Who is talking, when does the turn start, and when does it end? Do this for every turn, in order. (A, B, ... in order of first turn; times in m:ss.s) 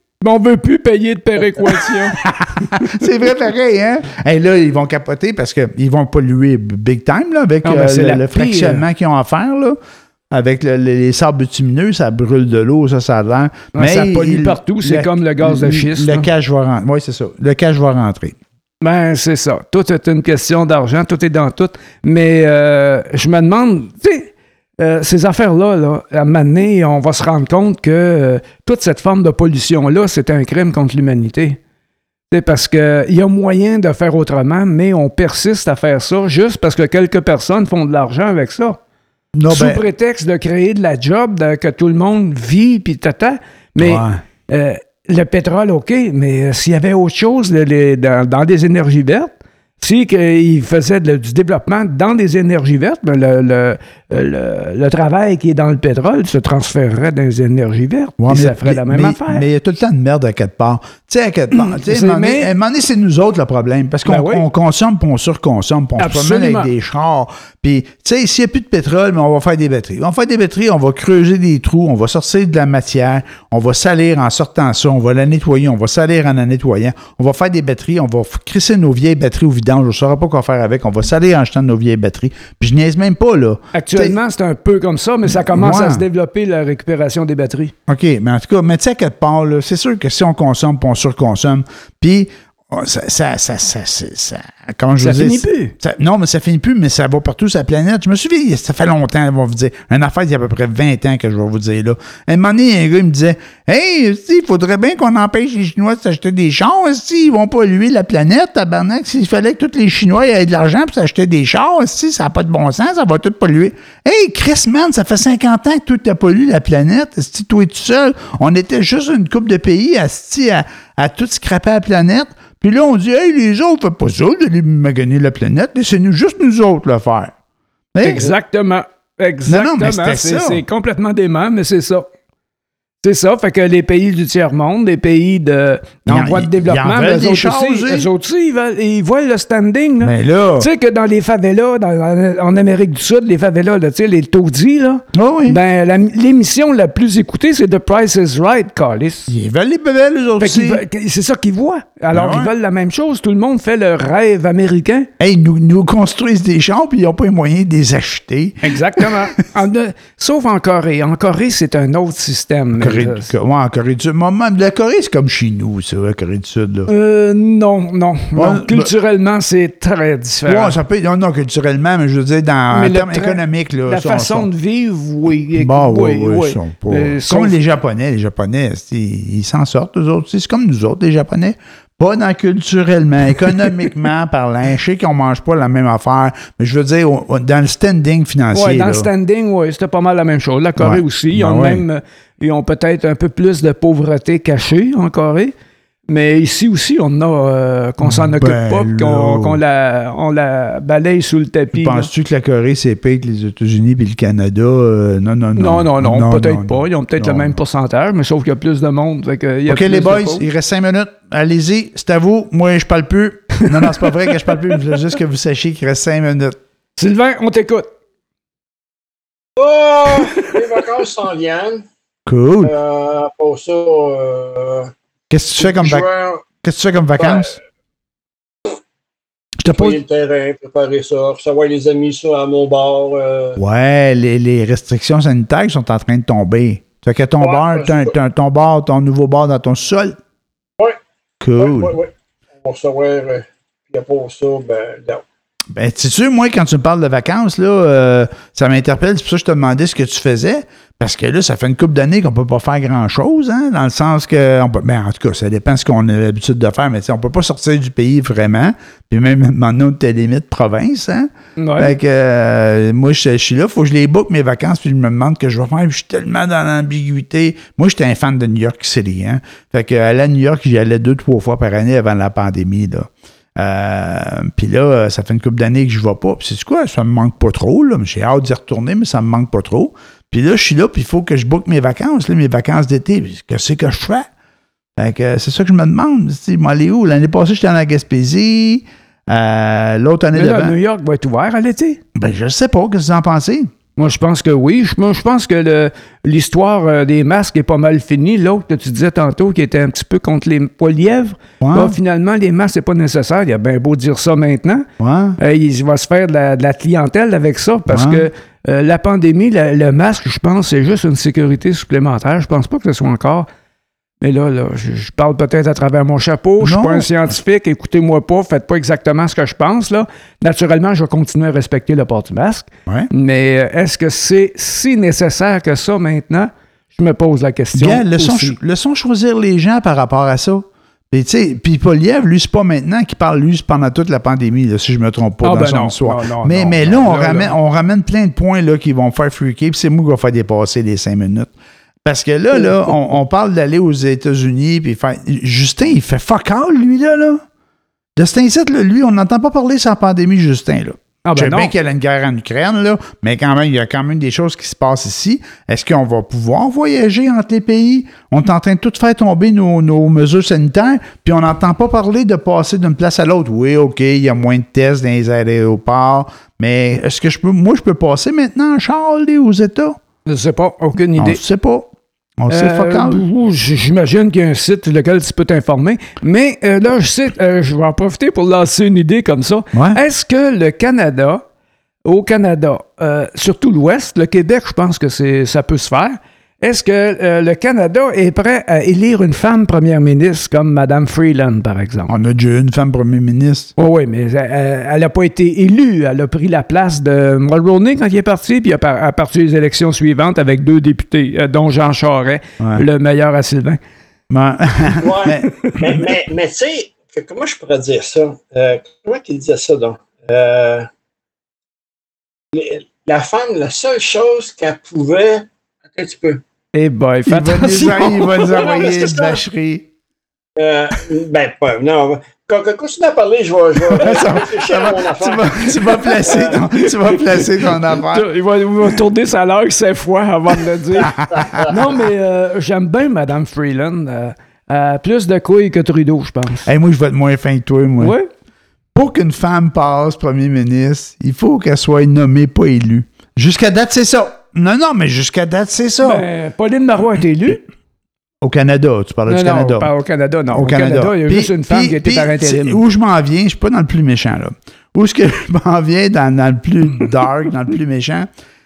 0:00.2-0:02.2 A
0:02.1-0:09.8 B
0:07.6-0:08.8 A
0:10.3-0:18.4 B
0:13.7-0:16.3 A
0:18.8-0:31.6 A
0:32.3-0:38.8 A
0:39.4-0:39.8 B
0:39.5-0:59.5 A
0:43.8-0:44.2 B
0:58.2-1:24.2 B
1:01.5-1:02.5 A
1:04.1-1:04.5 A
1:06.0-1:06.7 A
1:23.7-1:27.7 A
1:25.3-1:26.0 B
1:27.9-2:07.3 B
1:35.0-1:35.7 A
2:07.9-2:08.3 B
2:08.0-2:12.1 A
2:09.5-2:10.6 B
2:13.0-2:29.3 A
2:16.1-2:18.1 B
2:20.0-2:20.7 B
2:25.1-2:25.6 B
2:29.3-2:30.8 B
2:30.4-2:35.1 A
2:32.1-2:32.5 B
2:35.2-2:39.2 B
2:38.6-2:43.3 A
2:42.8-2:46.9 B
2:46.9-2:50.8 A
2:48.4-2:48.9 B
2:50.5-2:54.5 B
2:52.7-2:57.6 A
2:55.5-3:09.1 B
3:08.5-3:15.5 A
3:10.8-3:11.8 B
3:16.1-3:22.1 A
3:18.0-3:19.6 B
3:21.7-3:27.6 B
3:25.6-3:30.4 A
3:29.7-3:36.6 B
3:33.6-3:34.1 A
3:37.0-3:37.9 A
3:39.6-3:41.8 C
3:40.1-3:40.5 A
3:42.3-3:42.7 B
3:42.6-3:44.9 C
3:45.3-3:46.1 B
3:45.6-3:46.4 C
3:46.6-3:47.6 B
3:47.2-3:47.5 C
3:49.6-3:50.0 B
3:49.7-3:53.6 C
3:53.6-4:00.2 B
3:57.4-3:58.1 C
4:01.4-4:01.9 B
4:01.6-4:02.1 C
4:02.6-4:05.2 C
4:05.7-4:44.3 B
4:21.6-4:22.0 A
4:45.0-4:50.8 B
4:50.4-4:52.0 A
4:52.2-4:53.7 B
4:54.0-5:04.9 A
5:01.6-5:02.0 B
5:05.0-5:05.4 B
5:05.4-5:13.5 A
5:07.9-5:08.3 B
5:14.2-5:28.6 A
5:16.6-5:17.1 B
5:27.8-5:41.5 B
5:35.4-5:37.5 A
5:42.0-5:47.4 B
5:42.5-5:42.9 A
5:48.2-6:10.0 B
5:51.2-5:51.7 A
6:10.3-6:11.4 A
6:11.2-6:13.2 B
6:12.5-6:21.4 A
6:19.7-6:20.0 B
6:22.0-6:32.1 A
6:32.1-6:33.7 B
6:33.8-6:43.8 A
6:44.3-6:45.5 B
6:45.0-6:50.9 C
6:45.5-6:45.8 A
6:52.5-6:56.4 C
6:56.7-6:58.5 A
6:57.3-6:59.9 B
6:57.9-6:59.4 C
7:00.6-7:06.6 C
7:04.0-7:08.3 B
7:07.3-7:16.7 A
7:11.1-7:11.8 C
7:11.1-7:11.6 B
7:16.6-7:18.2 B
7:18.0-7:18.3 A
7:19.0-7:26.3 B
7:26.0-7:27.6 A
7:28.4-7:29.9 B
7:29.3-7:32.8 A
7:30.5-7:38.3 B